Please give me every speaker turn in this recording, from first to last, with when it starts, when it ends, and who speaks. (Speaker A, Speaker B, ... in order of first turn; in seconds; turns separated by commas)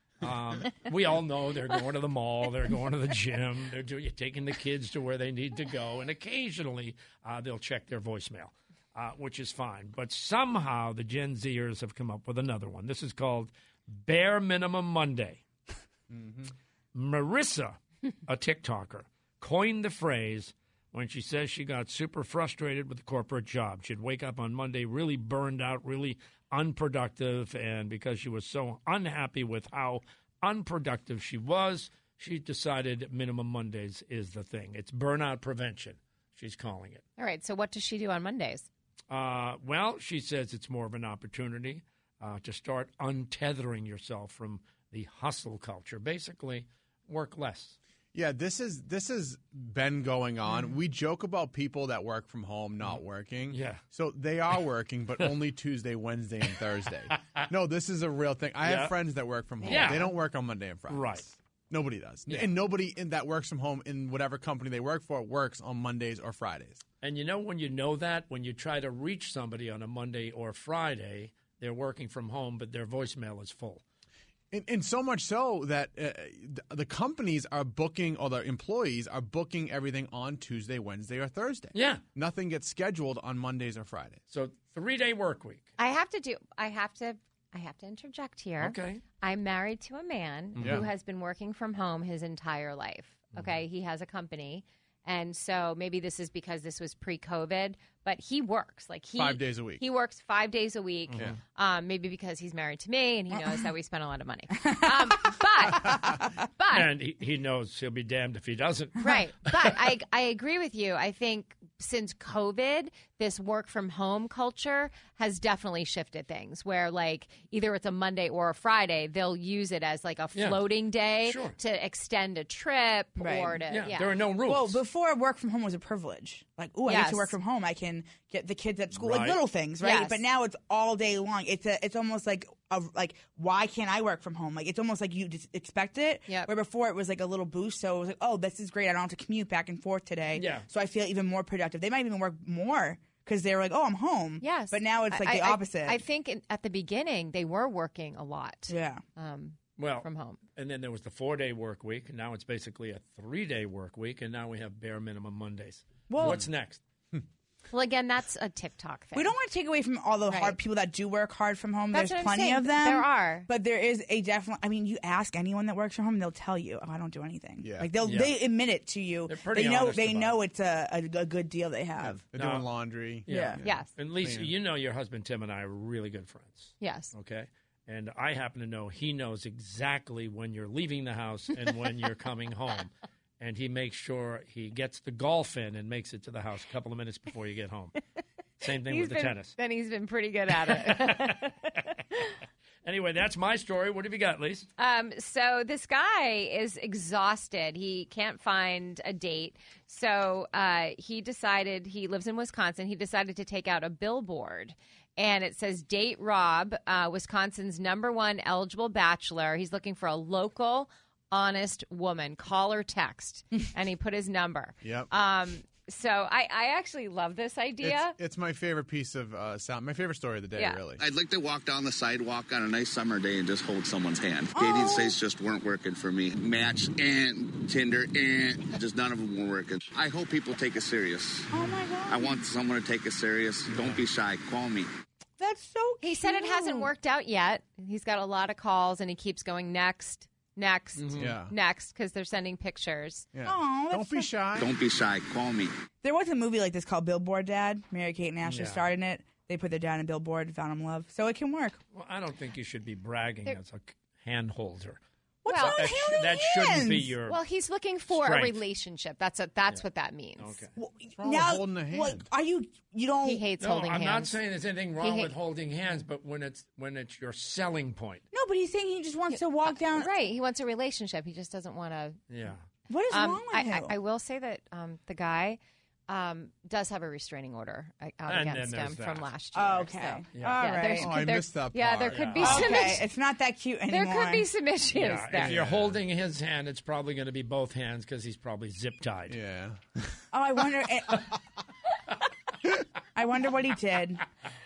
Speaker A: 0.2-15.4, Speaker B: 16.1-16.5, Speaker A: 16.9-37.0, Speaker C: 37.2-38.6, Speaker A: 39.1-47.8, Speaker B: 48.1-66.8, Speaker A: 53.5-53.8, Speaker A: 57.1-57.5, Speaker A: 58.6-58.9, Speaker A: 59.6-60.1, Speaker A: 60.9-61.2, Speaker A: 67.0-73.8, Speaker B: 74.5-84.2, Speaker A: 81.7-82.0, Speaker A: 84.3-85.7, Speaker C: 85.8-106.9, Speaker A: 88.6-89.0, Speaker A: 90.5-90.9, Speaker B: 90.5-90.9, Speaker B: 99.1-99.8, Speaker A: 101.1-101.4, Speaker B: 101.1-101.4, Speaker D: 104.7-106.3, Speaker A: 106.7-109.8, Speaker C: 109.0-124.1, Speaker A: 120.3-120.7, Speaker A: 121.2-121.6, Speaker D: 123.2-123.6, Speaker A: 123.7-124.8, Speaker D: 124.5-146.0, Speaker C: 126.8-127.3, Speaker A: 128.9-129.4, Speaker C: 129.8-130.2, Speaker A: 140.3-140.7, Speaker C: 144.4-150.4, Speaker D: 148.7-149.0, Speaker A: 149.8-156.8, Speaker D: 156.1-156.4, Speaker C: 157.7-159.3, Speaker D: 159.1-172.2, Speaker C: 160.3-160.6, Speaker C: 161.9-163.5, Speaker B: 167.6-167.9, Speaker A: 168.0-168.3, Speaker A: 169.3-170.4, Speaker B: 172.0-174.5, Speaker A: 172.3-172.7, Speaker A: 173.2-187.9, Speaker D: 173.3-173.6, Speaker C: 173.6-173.9, Speaker C: 176.8-177.1, Speaker A: 188.6-189.6, Speaker C: 188.8-191.5, Speaker A: 190.5-191.5, Speaker A: 192.8-194.7, Speaker C: 194.8-218.1, Speaker B: 214.8-215.1, Speaker B: 217.8-221.0, Speaker C: 220.6-220.9, Speaker E: 221.0-231.5, Speaker D: 224.5-225.2, Speaker D: 231.5-232.4, Speaker E: 232.1-234.9, Speaker D: 235.4-236.9, Speaker C: 236.0-243.3, Speaker A: 240.9-241.3, Speaker B: 241.2-241.5, Speaker B: 243.3-244.7, Speaker D: 243.4-244.4, Speaker E: 244.6-245.7, Speaker D: 246.0-251.8, Speaker A: 248.4-248.9, Speaker A: 251.9-255.0, Speaker D: 255.4-257.1, Speaker C: 255.5-255.8, Speaker A: 255.6-257.4, Speaker C: 257.3-260.6, Speaker A: 258.1-258.6, Speaker A: 260.4-260.7, Speaker D: 260.8-263.4, Speaker B: 261.2-262.2, Speaker C: 263.2-264.4, Speaker A: 263.6-268.2, Speaker C: 265.0-265.3, Speaker D: 268.3-270.1, Speaker C: 269.3-272.2, Speaker A: 272.3-272.6, Speaker D: 272.9-273.9, Speaker C: 273.1-283.1, Speaker A: 278.2-279.3, Speaker D: 279.5-281.3, Speaker A: 280.3-280.7, Speaker B: 281.0-282.7, Speaker A: 282.0-282.8, Speaker D: 282.4-284.5, Speaker C: 283.9-285.6, Speaker A: 284.9-289.4, Speaker B: 285.3-286.0, Speaker B: 289.3-289.8, Speaker D: 290.3-291.3, Speaker D: 293.1-294.2